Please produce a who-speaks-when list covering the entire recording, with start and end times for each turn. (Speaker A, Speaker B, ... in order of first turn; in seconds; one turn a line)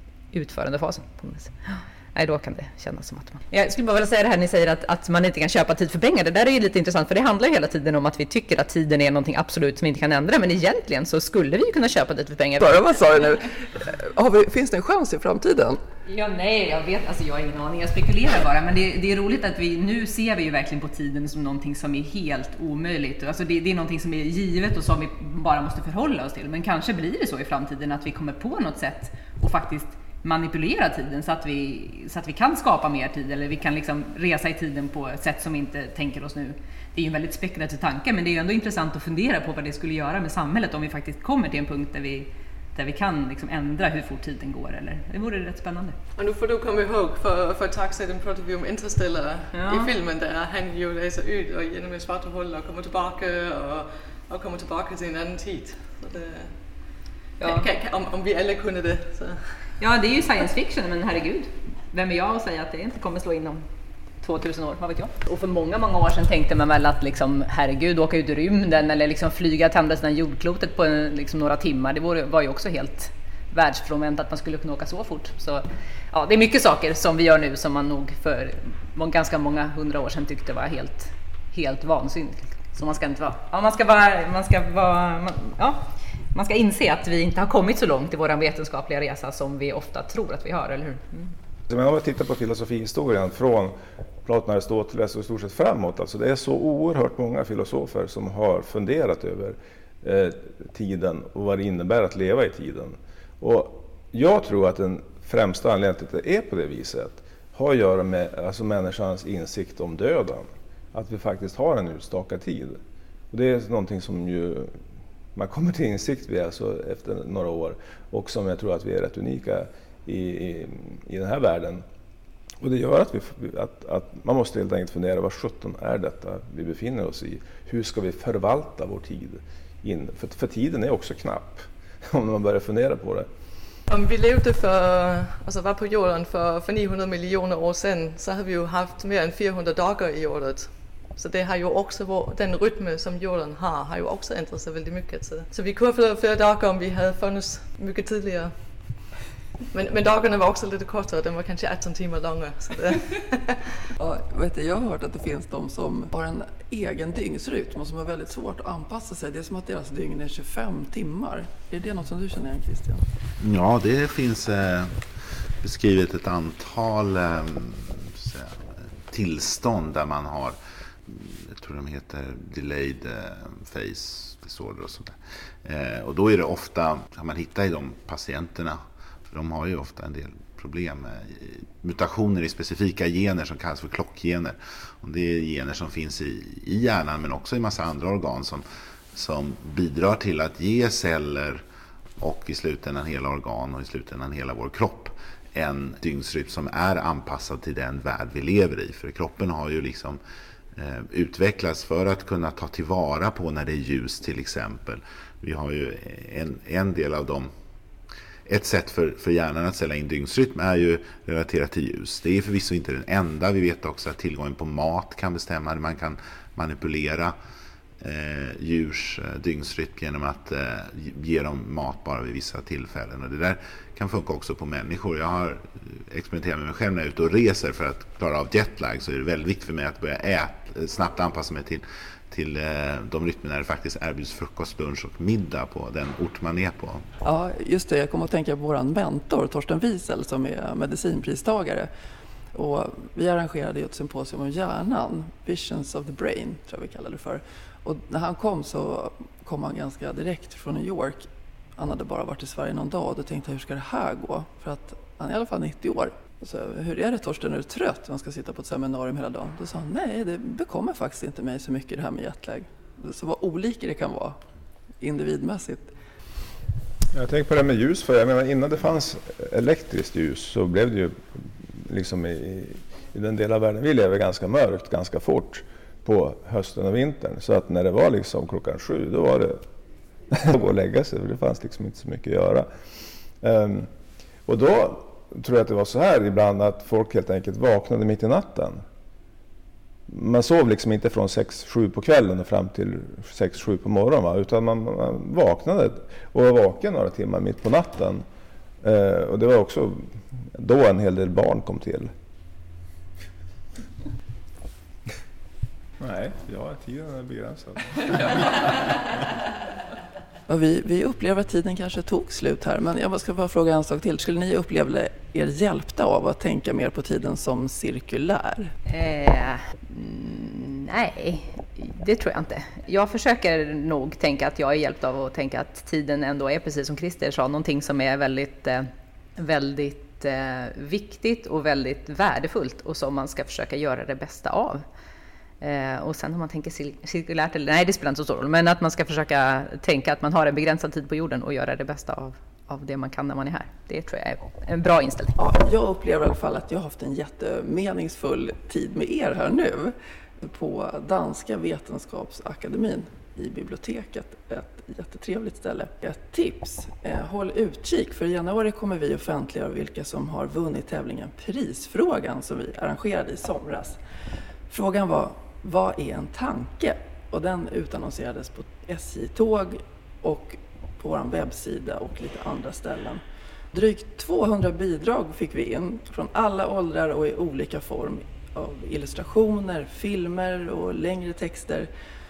Speaker A: 0.3-12.9
Speaker B: 12.6-15.8
Speaker A: 16.1-46.0
Speaker C: 46.2-56.5
Speaker A: 49.5-49.9
Speaker A: 57.4-57.7
Speaker C: 57.4-59.4
Speaker A: 59.8-63.6
Speaker A: 64.2-91.3
Speaker D: 91.7-112.8
Speaker D: 113.3-114.8
Speaker D: 115.3-121.8
Speaker D: 122.6-133.3
Speaker C: 133.9-148.5
Speaker C: 149.7-153.6
Speaker B: 154.0-163.1
Speaker E: 163.4-191.6
Speaker E: 192.2-200.2
Speaker E: 200.8-207.5
Speaker E: 208.5-217.3
Speaker E: 218.0-237.0
Speaker B: 237.2-241.9
Speaker B: 242.5-264.4
Speaker B: 265.0-265.9
Speaker D: 267.1-279.6
Speaker D: 280.3-282.7
Speaker D: 283.4-283.9
Speaker D: 284.5-288.8
Speaker D: 290.1-298.2
Speaker D: 298.8-302.1
Speaker D: 306.0-308.8
Speaker B: 310.5-318.7
Speaker A: 318.9-334.9
Speaker A: 335.6-345.4
Speaker B: 345.4-364.0
Speaker B: 364.7-373.2
Speaker B: 373.7-381.9